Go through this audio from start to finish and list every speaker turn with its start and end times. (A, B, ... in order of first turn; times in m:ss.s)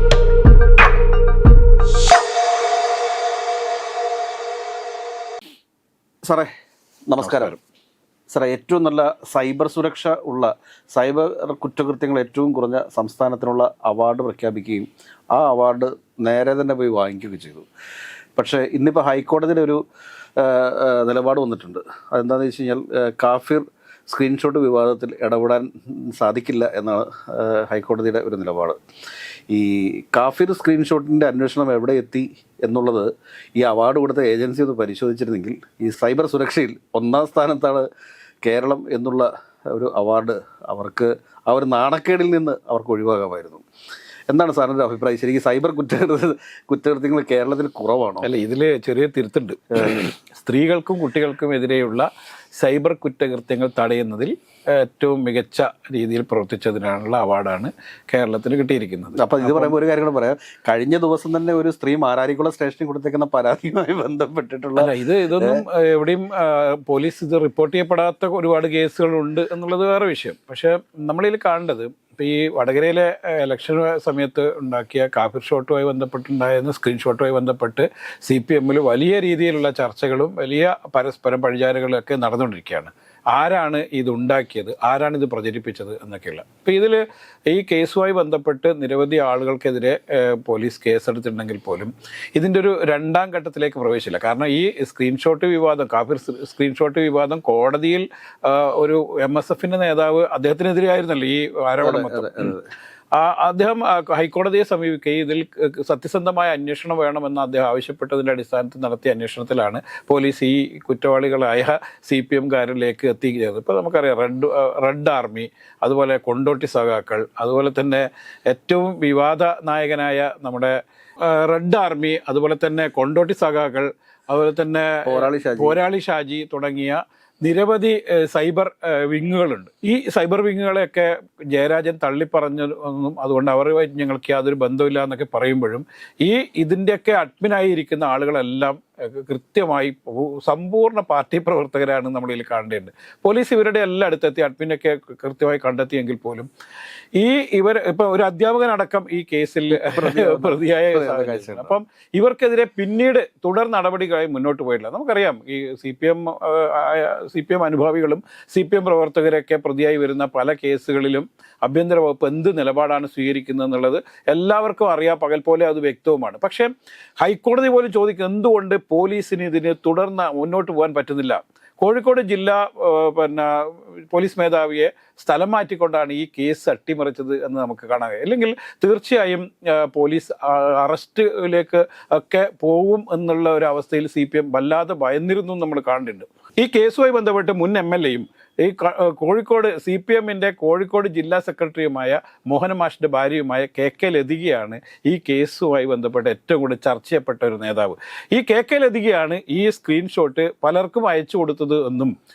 0:06.2-0:06.5 A
0:07.1-0:07.6 A
0:07.2-0:07.5 B
0:08.3-0:17.6 A
0:18.4-0:19.8 A
0:20.4-0:28.8 A
0:29.5-0:37.8 A
0:38.4-0:43.6 A
0:44.3-0:48.3 A
0:48.2-0:59.7 B
0:59.2-1:05.6 A
1:04.8-1:42.5 B
1:41.8-1:42.7 A
1:43.2-2:26.5 B
2:05.0-2:05.8 A
2:27.2-3:22.1 B
2:29.7-2:31.7 A